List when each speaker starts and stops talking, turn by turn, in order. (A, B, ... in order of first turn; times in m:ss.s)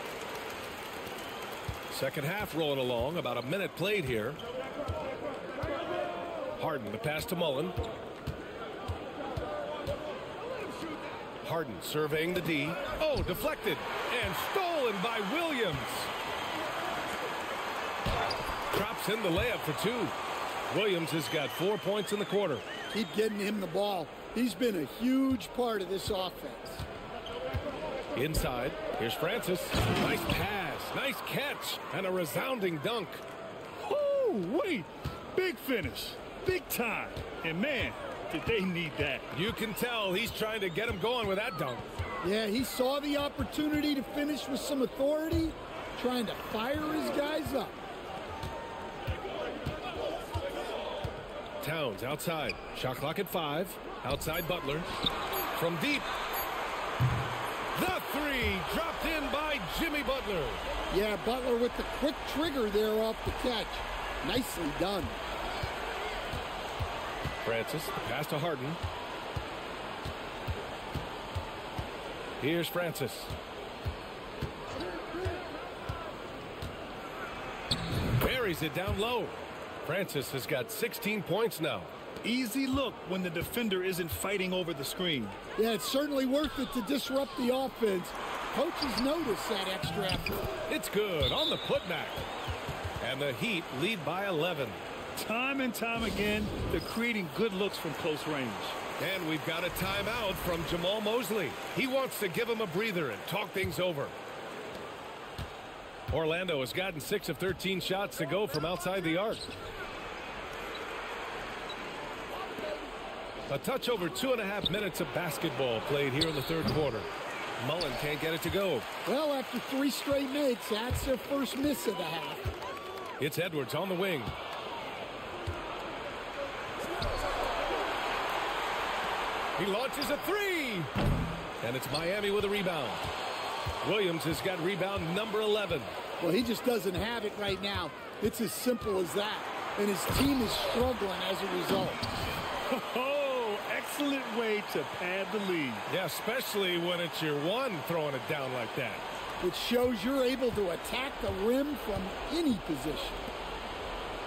0:01.9-0:04.4 A
0:06.6-0:07.8 A
0:11.4-0:16.1 A
0:18.7-0:20.1 A
0:20.7-0:22.6 A
0:22.9-0:26.8 B
0:28.1-0:33.2 A
0:33.8-0:39.3 C
0:39.3-0:41.9 A
0:42.2-0:47.7 B
0:51.6-0:54.9 A
0:55.5-0:56.1 A
0:57.7-1:00.6 A
1:00.9-1:05.2 B
1:07.4-1:08.8 A
1:12.4-1:13.3 A
1:18.1-1:21.9 A
1:22.2-1:25.4 C
1:25.6-1:30.5 B
1:30.7-1:32.2 A
1:33.0-1:34.8 A
1:35.2-1:38.8 C
1:39.0-1:44.1 A
1:46.1-1:49.5 A
1:53.5-1:57.1 A
1:57.6-1:58.8 A
1:59.0-2:02.5 B
2:03.2-2:04.3 A
2:09.6-2:10.9 A
2:11.6-2:13.0 A
2:13.8-2:15.9 A
2:16.2-2:22.1 B
2:22.7-2:25.8 C
2:25.9-2:29.2 A
2:29.4-2:33.2 B